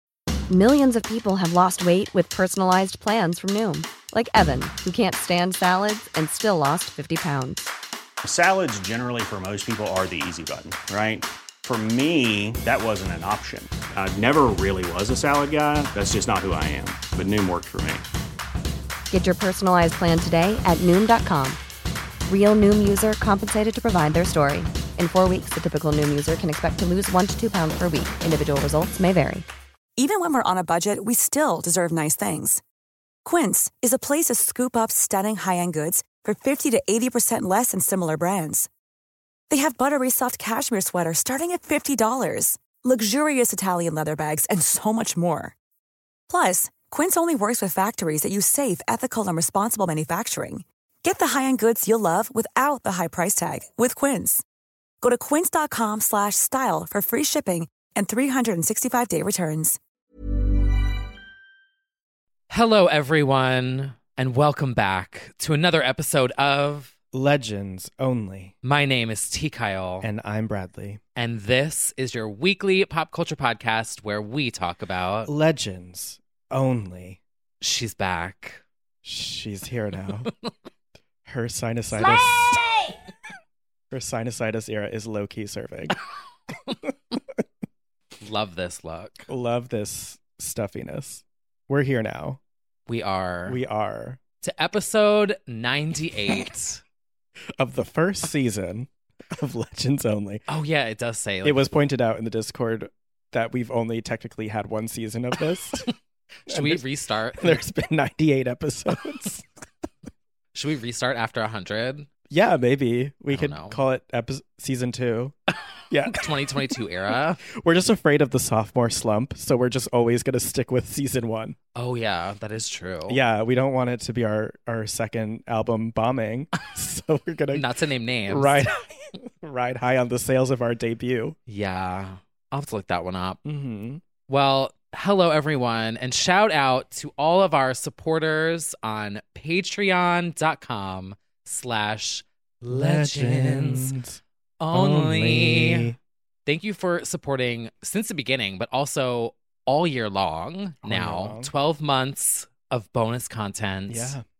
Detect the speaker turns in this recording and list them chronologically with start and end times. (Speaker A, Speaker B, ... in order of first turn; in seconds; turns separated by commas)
Speaker A: 0.5-7.7, Speaker B: 8.2-18.1, Speaker A: 19.1-21.6, Speaker A: 22.3-29.5, Speaker C: 30.0-32.6, Speaker C: 33.2-38.7, Speaker C: 39.5-45.5, Speaker C: 46.3-54.4, Speaker C: 55.0-59.8, Speaker D: 62.5-66.9, Speaker E: 67.1-68.5, Speaker D: 68.6-70.1, Speaker E: 70.0-71.0, Speaker D: 71.2-75.3, Speaker E: 75.2-77.2, Speaker D: 77.6-78.6, Speaker E: 79.0-80.3, Speaker E: 81.3-82.6, Speaker D: 82.0-82.6, Speaker E: 83.9-86.0, Speaker D: 88.2-89.3, Speaker E: 89.3-92.4, Speaker D: 92.9-93.6, Speaker E: 93.5-94.2, Speaker D: 94.4-96.8, Speaker E: 97.6-100.4, Speaker D: 100.5-101.6, Speaker E: 101.4-105.9, Speaker D: 106.5-107.7, Speaker E: 106.5-106.8, Speaker E: 107.4-109.5, Speaker D: 110.5-112.1, Speaker E: 112.3-115.4, Speaker D: 113.3-113.8, Speaker E: 115.9-116.7, Speaker D: 116.1-117.4, Speaker E: 117.6-121.6, Speaker D: 121.8-123.2, Speaker E: 123.1-127.7, Speaker D: 127.5-128.7, Speaker E: 128.3-131.4, Speaker D: 131.5-133.4, Speaker E: 133.4-134.0, Speaker D: 134.3-143.9, Speaker E: 142.7-146.0, Speaker D: 144.6-145.9, Speaker D: 146.5-154.2, Speaker E: 150.8-151.5, Speaker E: 153.9-154.2